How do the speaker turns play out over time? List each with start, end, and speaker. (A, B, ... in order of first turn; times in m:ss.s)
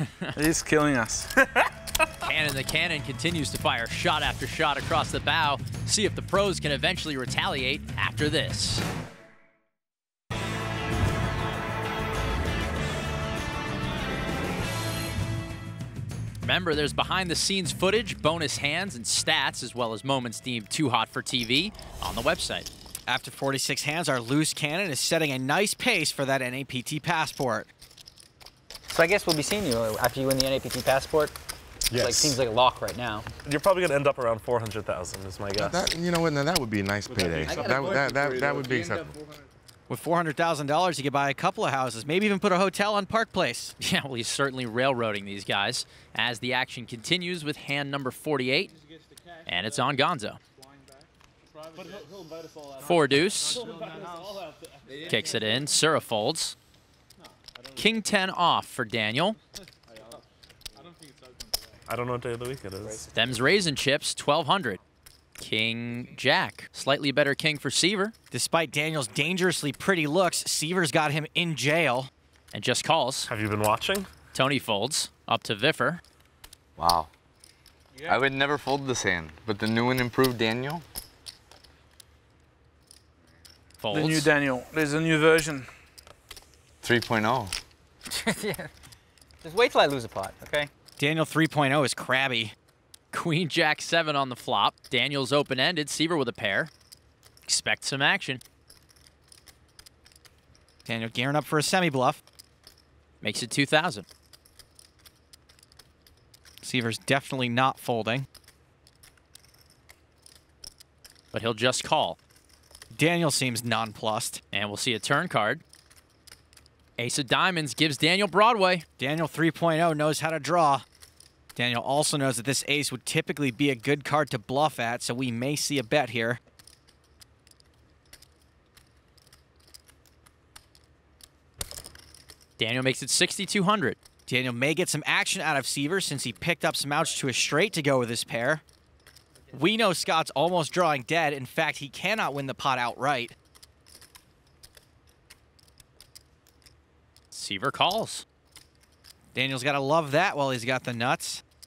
0:00.4-0:01.7 A
0:02.2-0:08.8 B
0:16.4-0:22.7 B
0:23.1-0:27.7 C
0:28.9-0:31.4 D
0:31.9-0:33.3 D
0:31.9-0:32.3 E
0:33.4-0:35.8 F
0:35.6-0:39.2 E
0:39.9-0:43.8 C
0:43.8-0:48.8 B
0:49.5-0:50.4 B
0:51.8-0:53.0 F
0:52.8-0:53.7 B
0:53.6-0:54.0 F
0:55.1-0:56.6 B
0:57.8-0:59.4 B
1:01.9-1:03.1 F
1:03.1-1:04.8 B
1:05.4-1:08.1 B
1:08.3-1:12.1 C
1:12.5-1:13.3 B
1:13.3-1:14.1 F
1:14.3-1:16.0 B
1:16.8-1:17.1 G
1:18.0-1:18.2 A
1:18.1-1:20.8 G
1:23.8-1:24.3 B
1:23.9-1:25.7 A
1:26.8-1:27.5 G
1:28.1-1:28.7 D
1:29.4-1:30.7 D
1:31.0-1:32.5 C
1:33.1-1:36.7 B
1:37.5-1:38.4 B
1:40.9-1:42.2 C
1:43.2-1:44.1 B
1:46.6-1:48.3 C
1:51.3-1:52.2 B
1:52.9-1:54.4 C
1:54.5-1:55.6 B
1:57.0-1:58.8 B
1:59.0-2:00.8 C
2:01.6-2:06.4 C
2:12.6-2:14.0 B
2:14.3-2:18.6 C
2:19.5-2:23.4 C
2:27.3-2:28.2 B
2:29.4-2:31.4 C